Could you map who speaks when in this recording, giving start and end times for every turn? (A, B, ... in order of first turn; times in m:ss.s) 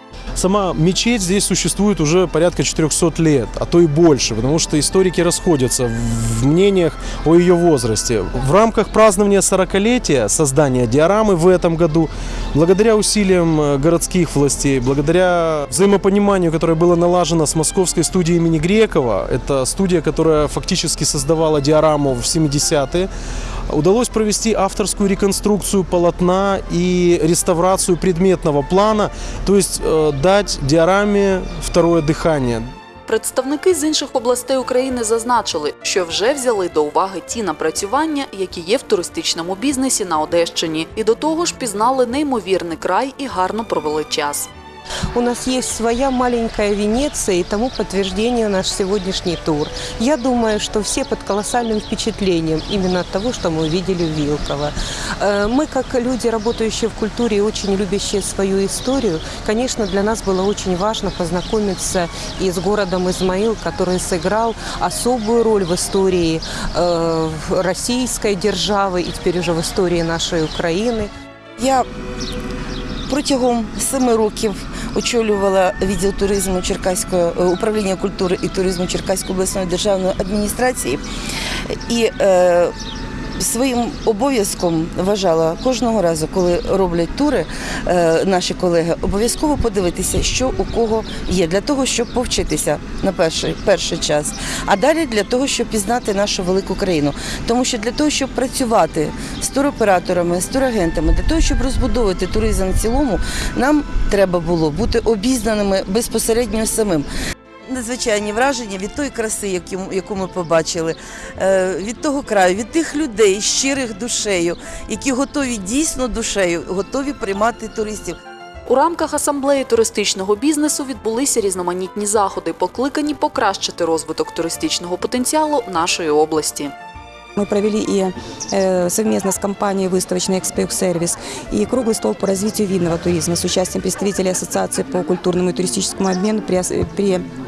0:00.4-0:23.1 A
0:23.7-0:32.6 A
0:33.1-0:44.5 B
0:45.1-1:11.1 C
1:11.6-1:11.8 D
1:13.1-1:21.0 D
1:21.9-1:22.7 D
1:23.4-1:47.1 D
1:47.7-1:58.2 D
1:58.7-2:06.7 B
2:07.4-2:17.2 E